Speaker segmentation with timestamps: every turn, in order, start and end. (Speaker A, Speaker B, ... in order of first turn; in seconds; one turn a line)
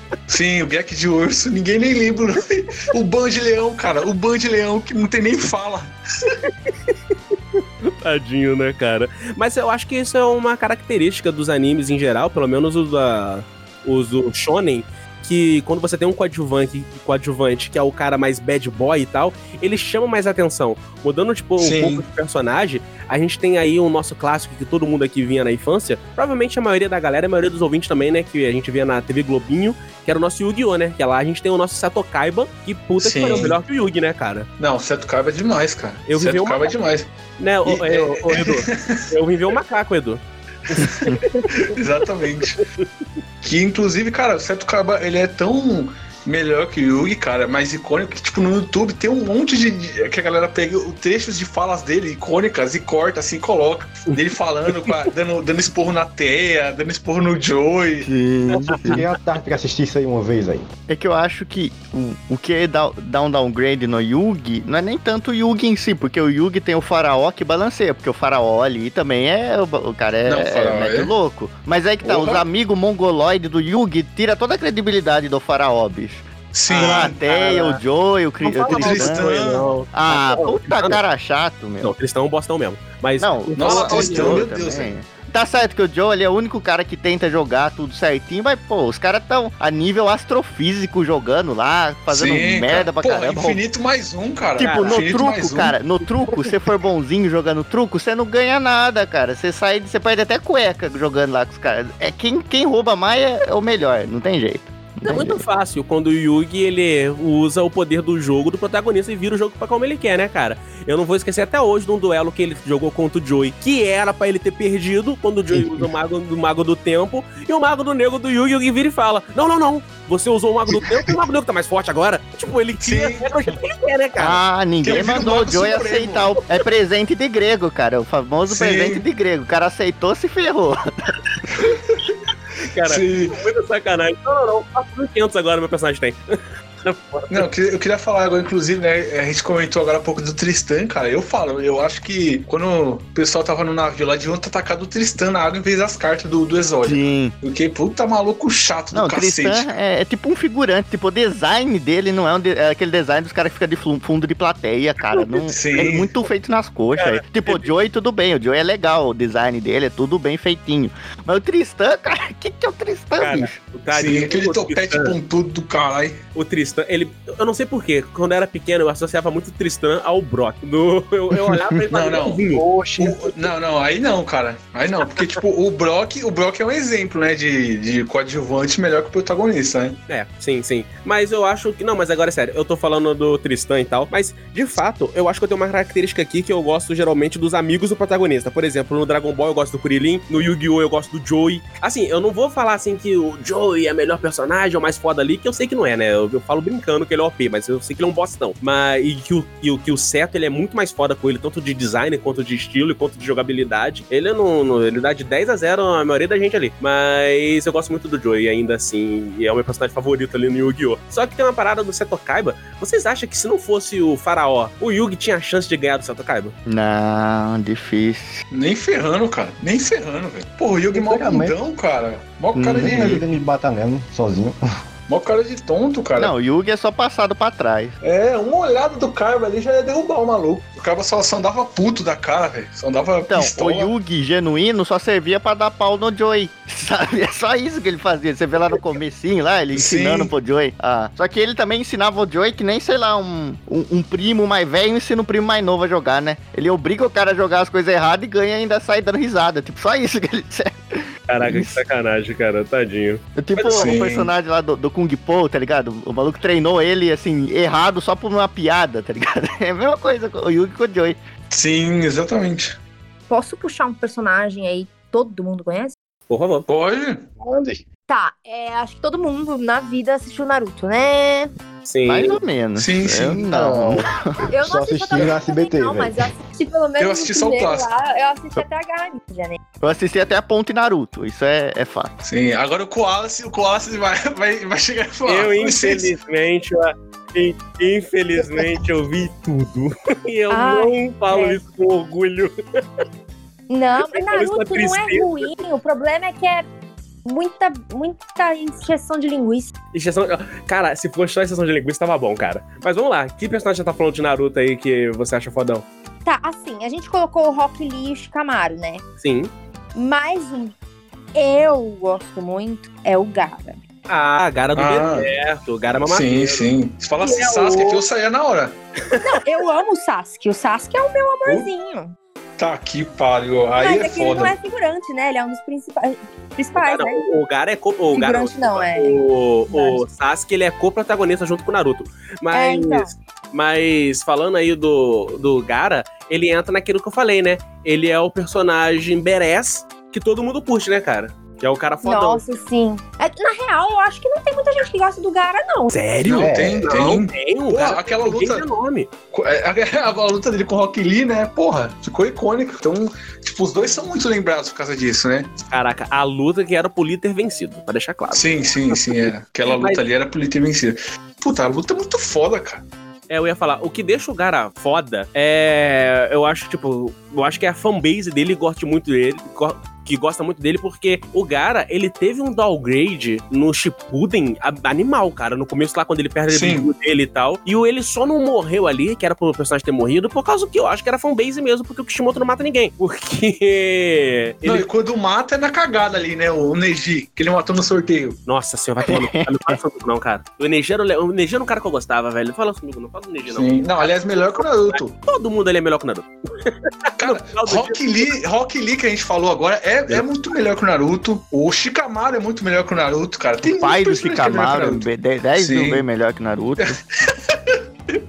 Speaker A: 0.3-6.3
Speaker B: 6.5-34.5
Speaker A: 21.6-22.0
Speaker A: 33.0-33.6
Speaker A: 34.6-37.1
Speaker B: 36.1-36.7
Speaker B: 37.4-41.5
Speaker A: 37.6-39.1
Speaker A: 40.7-42.6
Speaker A: 43.4-58.1
Speaker B: 54.1-55.1
Speaker C: 58.0-59.1
Speaker D: 58.8-60.7
Speaker C: 60.9-79.2
Speaker A: 70.2-71.1
Speaker A: 72.0-72.4
Speaker A: 76.5-77.2
Speaker B: 76.7-77.8
Speaker B: 78.4-81.0
Speaker A: 78.7-79.7
Speaker C: 79.9-81.9
Speaker B: 81.8-84.4
Speaker C: 83.2-93.6
Speaker A: 83.6-84.9
Speaker A: 92.1-95.8
Speaker C: 94.6-105.4
Speaker B: 94.6-95.0
Speaker B: 105.0-124.4
Speaker A: 122.8-123.3
Speaker C: 124.2-131.1
Speaker A: 124.8-126.3
Speaker A: 128.5-129.0
Speaker A: 131.5-132.1
Speaker B: 132.7-137.4
Speaker A: 132.8-133.3
Speaker A: 137.3-149.7
Speaker C: 146.8-147.3
Speaker C: 148.9-163.6
Speaker B: 155.1-155.4
Speaker A: 155.5-156.1
Speaker B: 157.0-157.7
Speaker B: 163.2-165.1
Speaker A: 163.9-166.2
Speaker B: 166.3-172.7
Speaker A: 171.9-180.0
Speaker D: 172.5-173.3
Speaker B: 180.1-216.5
Speaker C: 216.7-218.4
Speaker A: 218.5-223.2
Speaker D: 220.9-221.6
Speaker C: 222.6-223.2
Speaker D: 222.8-224.6
Speaker A: 225.1-226.3
Speaker C: 226.2-228.0
Speaker A: 228.0-233.9
Speaker C: 233.3-251.8
Speaker A: 239.7-240.3
Speaker B: 251.3-253.9
Speaker C: 253.4-261.2
Speaker A: 253.7-254.3
Speaker A: 261.5-262.8
Speaker E: 263.3-265.9
Speaker B: 266.3-266.7
Speaker A: 266.7-267.3
Speaker D: 267.4-267.8
Speaker E: 268.1-271.5
Speaker B: 271.9-272.4
Speaker C: 272.1-274.3
Speaker A: 272.8-273.4
Speaker D: 273.4-276.3
Speaker E: 274.5-279.6
Speaker A: 277.0-277.9
Speaker C: 279.8-282.1
Speaker A: 282.2-286.1
Speaker B: 285.2-293.0
Speaker E: 290.5-291.6
Speaker E: 293.7-296.6
Speaker B: 294.0-295.5
Speaker E: 297.2-299.7
Speaker B: 299.9-305.9
Speaker E: 306.2-309.0
Speaker B: 309.2-309.5
Speaker E: 309.9-310.7
Speaker E: 311.3-313.8
Speaker B: 314.1-316.7
Speaker A: 314.8-315.3
Speaker A: 316.0-318.8
Speaker B: 317.2-317.9
Speaker E: 317.3-318.0
Speaker B: 319.0-319.4
Speaker E: 319.2-322.1
Speaker A: 322.6-324.5
Speaker E: 323.8-327.2
Speaker B: 326.8-342.4
Speaker E: 328.1-329.2
Speaker E: 329.7-330.0
Speaker E: 332.5-333.1
Speaker E: 342.0-346.0
Speaker B: 345.9-349.1
Speaker A: 346.3-348.7
Speaker D: 346.3-347.1
Speaker A: 349.3-355.5
Speaker B: 355.7-360.0
Speaker A: 358.3-362.8
Speaker B: 363.3-384.9
Speaker A: 376.5-376.9
Speaker A: 384.6-388.4
Speaker B: 388.4-398.3
Speaker C: 389.1-389.8
Speaker A: 393.4-395.1
Speaker A: 397.2-405.0
Speaker C: 403.6-407.0
Speaker A: 405.6-406.0
Speaker A: 406.8-407.8